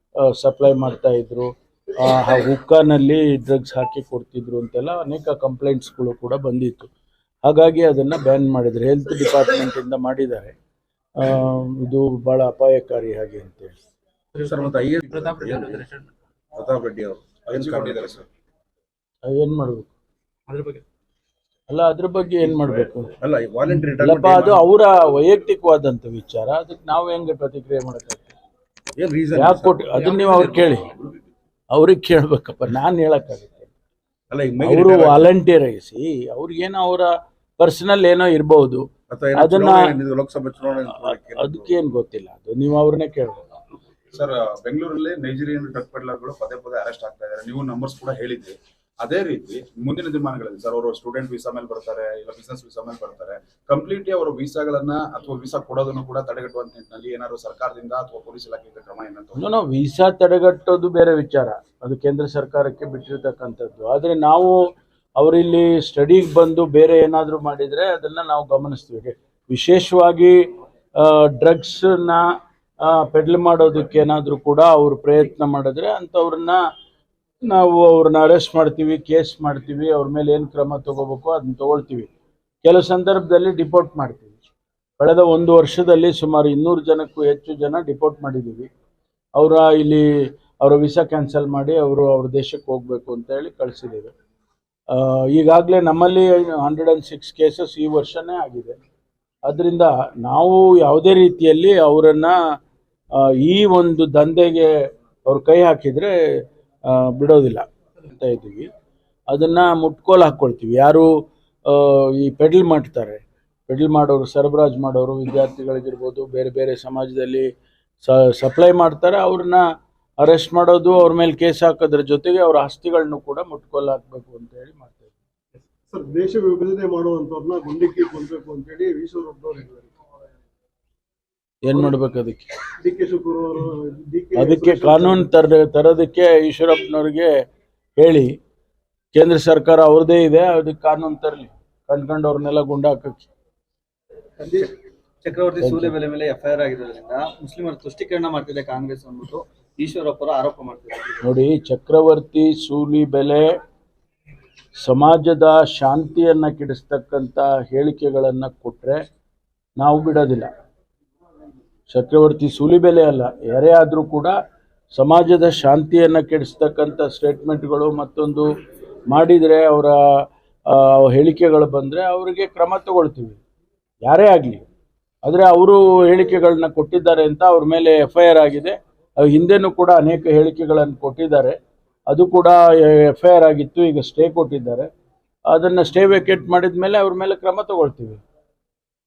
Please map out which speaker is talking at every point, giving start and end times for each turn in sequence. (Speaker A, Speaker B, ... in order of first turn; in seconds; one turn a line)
Speaker A: 0.2-6.9
Speaker A: 7.5-10.5
Speaker A: 11.2-13.7
Speaker B: 14.4-15.9
Speaker C: 15.1-16.1
Speaker B: 16.5-18.1
Speaker D: 17.5-18.2
Speaker A: 19.2-19.9
Speaker C: 20.5-20.8
Speaker A: 21.7-23.1
Speaker B: 22.5-24.7
Speaker A: 24.0-28.3
Speaker B: 29.0-30.5
Speaker A: 29.3-30.9
Speaker C: 30.1-30.6
Speaker A: 31.7-33.7
Speaker B: 34.3-35.3
Speaker A: 34.6-40.0
Speaker B: 39.1-41.8
Speaker A: 41.0-43.5
Speaker D: 44.1-59.5
Speaker A: 59.4-64.5
Speaker A: 65.2-70.3
Speaker A: 71.0-72.2
Speaker A: 72.8-76.6
Speaker A: 77.5-82.1
Speaker A: 82.6-84.4
Speaker A: 85.0-88.7
Speaker A: 89.3-90.1
Speaker A: 90.6-94.1
Speaker A: 94.9-98.8
Speaker A: 99.5-102.4
Speaker A: 103.2-104.7
Speaker A: 105.3-106.1
Speaker A: 106.9-108.7
Speaker A: 109.3-111.1
Speaker A: 111.7-117.5
Speaker A: 118.0-119.6
Speaker A: 120.2-125.1
Speaker E: 125.9-129.9
Speaker A: 131.6-132.4
Speaker E: 132.8-135.3
Speaker A: 134.4-137.3
Speaker A: 138.0-138.3
Speaker A: 139.2-143.2
Speaker F: 144.4-144.7
Speaker F: 145.2-151.2
Speaker A: 145.6-145.9
Speaker A: 151.2-153.5
Speaker A: 154.8-159.0
Speaker A: 159.8-160.5
Speaker A: 161.9-164.3
Speaker A: 164.9-168.5
Speaker A: 169.1-173.4
Speaker A: 174.1-174.7
Speaker A: 175.2-181.6
Speaker A: 182.1-184.9
Speaker A: 185.5-188.2